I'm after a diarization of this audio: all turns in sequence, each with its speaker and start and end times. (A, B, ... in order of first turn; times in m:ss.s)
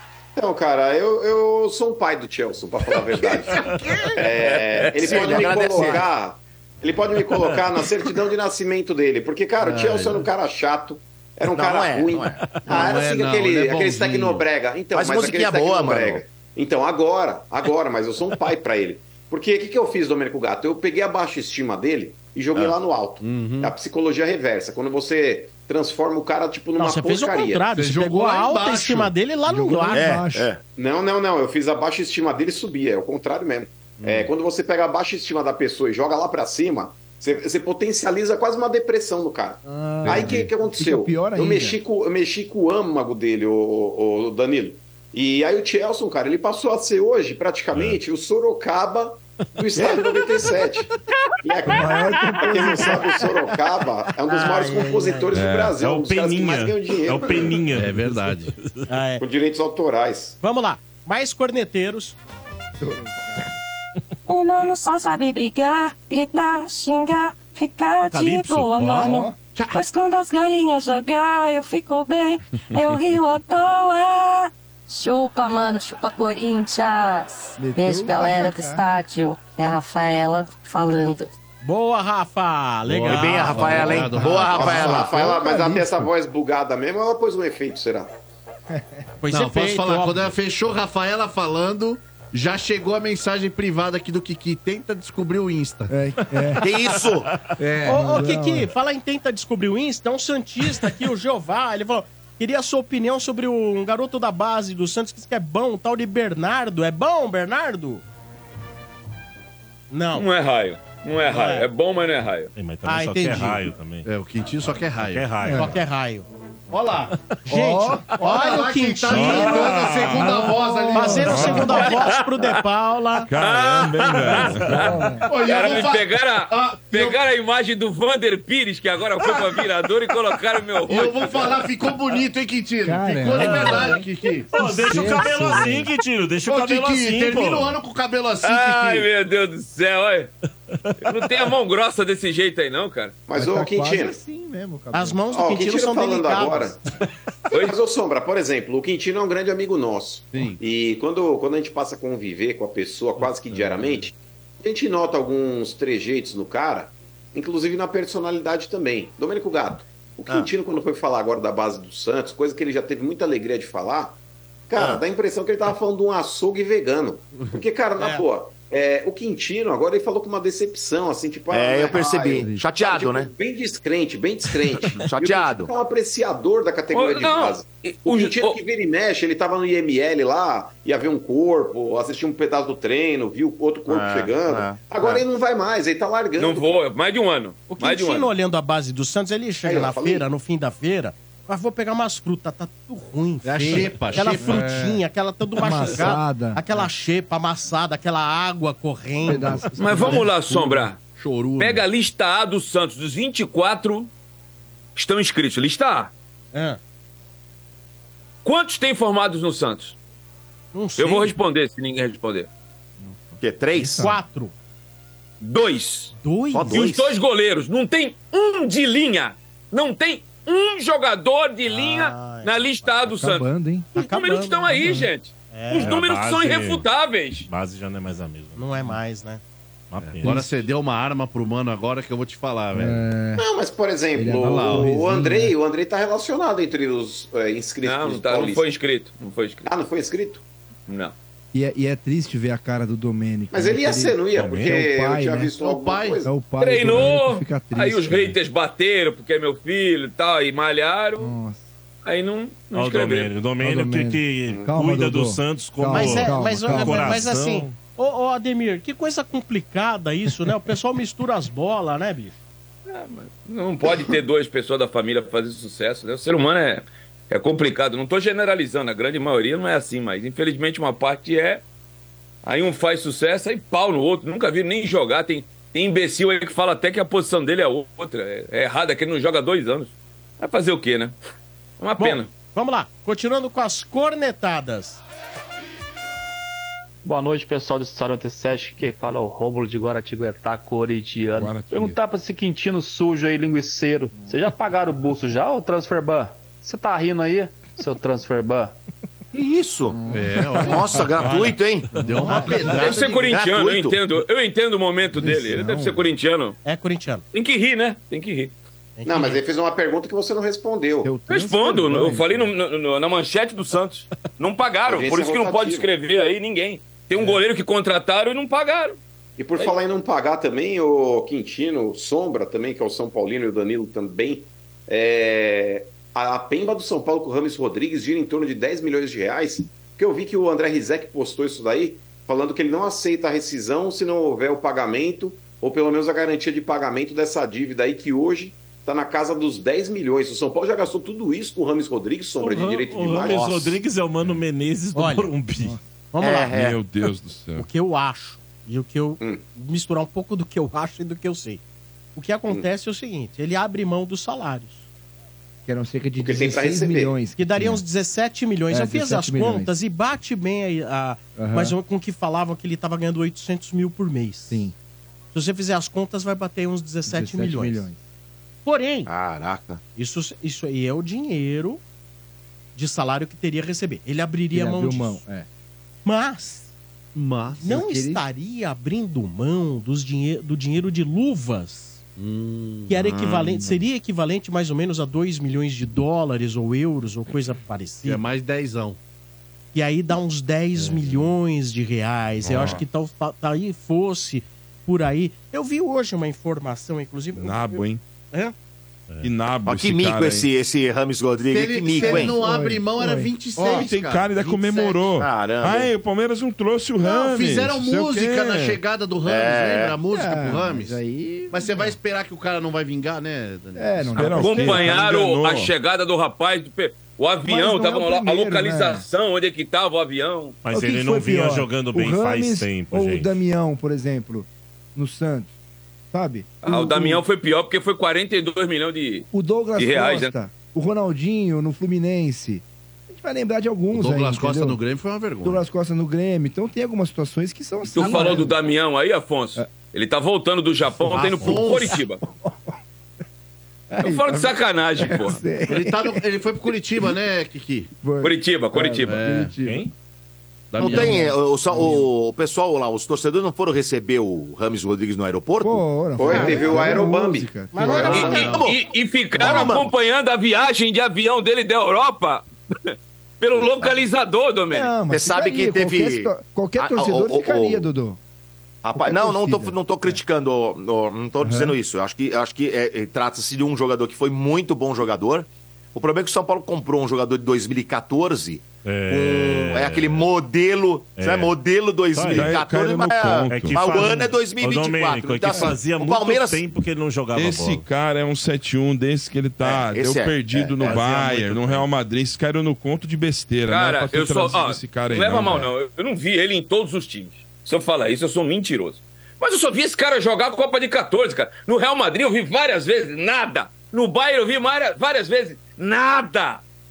0:00.4-0:27.6 A
0:04.4-0:05.3 B
0:05.0-0:06.0 C
0:09.6-0:10.3 D
0:11.5-0:12.5 C
0:12.7-0:14.4 D
0:14.9-0:16.2 C
0:23.2-0:23.7 D
0:26.8-0:30.1 E
0:27.7-0:29.1 D
0:29.5-0:30.5 F
0:29.9-0:30.6 C
0:30.8-0:50.9 A
0:34.0-0:34.3 D
0:39.6-0:41.8 F
0:51.4-0:57.6 A
0:51.7-0:53.1 F
0:54.3-0:55.3 E
0:55.3-0:55.8 G
0:55.7-0:58.8 H
0:57.7-0:58.5 D
0:58.9-0:59.2 E
0:59.2-1:00.4 A
1:00.4-1:02.2 E
1:02.8-1:03.5 F
1:04.3-1:21.3 I
1:08.1-1:09.8 D
1:08.3-1:08.8 H
1:09.0-1:09.4 F
1:17.6-1:18.9 F
1:21.6-1:24.1 E
1:22.9-1:25.1 D
1:23.1-1:25.1 C
1:24.0-1:26.1 F
1:24.5-1:28.1 A
1:29.2-1:30.3 E
1:29.3-1:35.9 D
1:35.9-1:36.6 F
1:36.6-1:37.3 C
1:37.6-1:38.7 F
1:37.8-1:48.0 E
1:49.9-1:50.3 E
1:50.2-1:52.5 B
1:51.2-1:51.6 E
1:52.5-1:54.1 H
1:52.8-1:53.7 E
1:54.0-1:55.4 D
1:55.0-1:55.8 H
1:55.4-1:55.7 F
1:55.5-1:56.2 E
1:56.7-1:57.1 D
1:57.5-2:03.3 E
1:57.5-1:58.1 F
1:58.2-2:01.7 D
1:59.1-2:00.2 G
2:00.1-2:01.6 F
2:01.3-2:01.9 G
2:01.7-2:02.5 B
2:03.3-2:04.9 G
2:03.3-2:11.4 B
2:04.8-2:05.3 F
2:05.2-2:07.2 D
2:10.8-2:14.5 D
2:12.8-2:15.9 F
2:13.4-2:17.8 H
2:16.4-2:19.1 D
2:18.4-2:20.3 B
2:21.0-2:23.1 B
2:23.3-2:24.2 A
2:23.3-2:25.2 F
2:24.9-2:26.7 E
2:25.3-2:26.8 A
2:27.5-2:27.8 B
2:27.5-2:44.2 A
2:30.3-2:30.6 D
2:44.7-3:06.6 A
2:44.8-2:45.0 C
2:48.0-2:48.2 E
2:51.5-2:53.3 C
2:52.4-2:52.6 F
2:54.9-2:55.7 C
2:56.9-2:58.6 B
3:03.9-3:05.2 C
3:06.4-3:08.3 B
3:07.7-3:20.2 E
3:09.6-3:10.2 A
3:13.4-3:14.7 D
3:13.6-3:15.0 F
3:15.6-3:16.9 F
3:19.2-3:20.2 F
3:19.8-3:21.0 B
3:19.9-3:21.8 D
3:21.6-3:24.1 B
3:25.0-3:26.1 B
3:26.5-3:26.8 E
3:28.4-3:30.0 B
3:30.7-3:31.3 E
3:31.0-3:32.5 B
3:33.0-3:34.2 F
3:33.4-3:34.1 C
3:33.8-3:34.5 E
3:35.4-3:36.1 B
3:36.2-3:36.8 E
3:36.5-3:37.2 C
3:36.7-3:47.5 B
3:41.7-3:42.9 E
3:43.0-3:43.9 F
3:43.9-3:44.8 E
3:44.7-3:45.1 F
3:45.5-3:46.0 E
3:45.8-3:46.8 H
3:47.5-3:49.0 H
3:48.6-3:49.4 E
3:49.9-3:50.6 H
3:50.0-3:53.0 D
3:52.7-3:53.4 F
3:53.4-3:58.6 A
3:54.2-3:55.5 F
3:54.3-3:54.9 D
3:57.8-3:59.7 B
3:59.6-4:00.4 A
4:00.9-4:01.1 B
4:01.5-4:05.5 F
4:03.5-4:06.3 A
4:04.3-4:04.8 H
4:05.6-4:06.2 D
4:06.2-4:08.4 F
4:06.6-4:11.3 B
4:11.2-4:11.6 F
4:12.0-4:13.4 B
4:12.7-4:17.8 H
4:13.6-4:17.3 F
4:15.9-4:22.4 E
4:22.9-4:31.6 B
4:32.4-4:41.2 B
4:41.8-4:42.3 B
4:42.0-4:45.0 E
4:47.0-4:58.8 J
4:51.3-4:52.0 G
4:59.3-5:00.0 C
4:59.9-5:00.8 F
5:00.1-5:01.3 D
5:00.6-5:01.9 C
5:01.2-5:01.6 H
5:01.9-5:03.2 D
5:02.1-5:02.6 F
5:02.7-5:06.6 B
5:02.8-5:04.0 C
5:05.1-5:06.1 F
5:06.6-5:07.2 E
5:07.3-5:08.5 B
5:09.0-5:09.4 E
5:09.0-5:11.1 A
5:11.0-5:12.5 F
5:11.3-5:19.0 B
5:14.9-5:15.9 A
5:19.4-5:43.5 A
5:42.4-5:45.8 H
5:43.2-5:43.8 C
5:44.9-5:45.3 E
5:46.1-5:46.6 E
5:46.2-5:46.8 C
5:46.5-5:47.7 G
5:47.6-5:51.6 E
5:52.2-5:54.8 E
5:55.7-5:57.8 F
5:56.2-5:57.1 A
5:57.4-6:04.7 E
5:58.7-5:59.7 F
6:01.4-6:01.8 F
6:05.3-6:07.9 E
6:07.1-6:08.0 F
6:08.6-6:09.1 E
6:09.1-6:09.8 C
6:10.0-6:11.8 E
6:12.7-6:15.2 E
6:14.5-6:15.4 F
6:16.0-6:16.7 E
6:17.1-6:17.8 D
6:17.6-6:22.0 E
6:17.6-6:18.2 F
6:22.2-6:23.0 D
6:22.9-6:28.2 E
6:23.1-6:23.5 C
6:28.0-6:29.0 D
6:29.7-6:38.5 E
6:32.5-6:32.8 G
6:32.5-6:32.8 H
6:37.4-6:38.0 G
6:39.2-6:40.5 G
6:39.7-6:42.4 C
6:41.5-6:45.1 D
6:42.0-6:43.3 F
6:43.6-6:43.9 E
6:43.6-6:48.8 G
6:45.2-6:45.9 C
6:47.0-6:54.4 D
6:49.2-6:50.0 C
6:50.1-6:52.0 F
6:53.7-6:55.1 F
6:54.2-6:55.7 G
6:54.4-7:00.6 B
6:57.4-6:59.0 F
7:00.6-7:03.4 H
7:00.7-7:05.5 F
7:06.1-7:07.2 F
7:06.6-7:10.3 B
7:09.3-7:14.8 F
7:13.9-7:15.6 D
7:15.4-7:18.6 F
7:17.9-7:22.2 B
7:20.8-7:22.8 F
7:21.1-7:22.0 D
7:23.9-7:26.2 F
7:24.0-7:25.4 B
7:25.7-7:27.9 D
7:28.0-7:29.8 F
7:28.2-7:29.2 B
7:29.0-7:29.5 D
7:29.6-7:29.9 H
7:30.7-7:32.0 D
7:30.8-7:32.0 F
7:30.8-7:35.8 C
7:35.6-7:38.3 F
7:36.1-7:38.3 A
7:37.7-7:38.6 E
7:37.9-7:38.7 D
7:38.0-7:38.8 C
7:38.1-7:44.9 B
7:39.3-7:39.9 C
7:39.4-7:39.8 F
7:44.7-7:48.2 F
7:45.1-7:47.9 C
7:48.8-8:06.6 C
7:48.9-7:50.2 F
7:51.4-7:51.7 F
7:58.8-8:00.2 H
8:01.1-8:01.5 H
8:02.1-8:02.5 H
8:02.3-8:04.2 G
8:03.2-8:07.8 H
8:07.3-8:15.7 G
8:09.6-8:11.2 C
8:10.8-8:11.8 H
8:13.7-8:26.6 B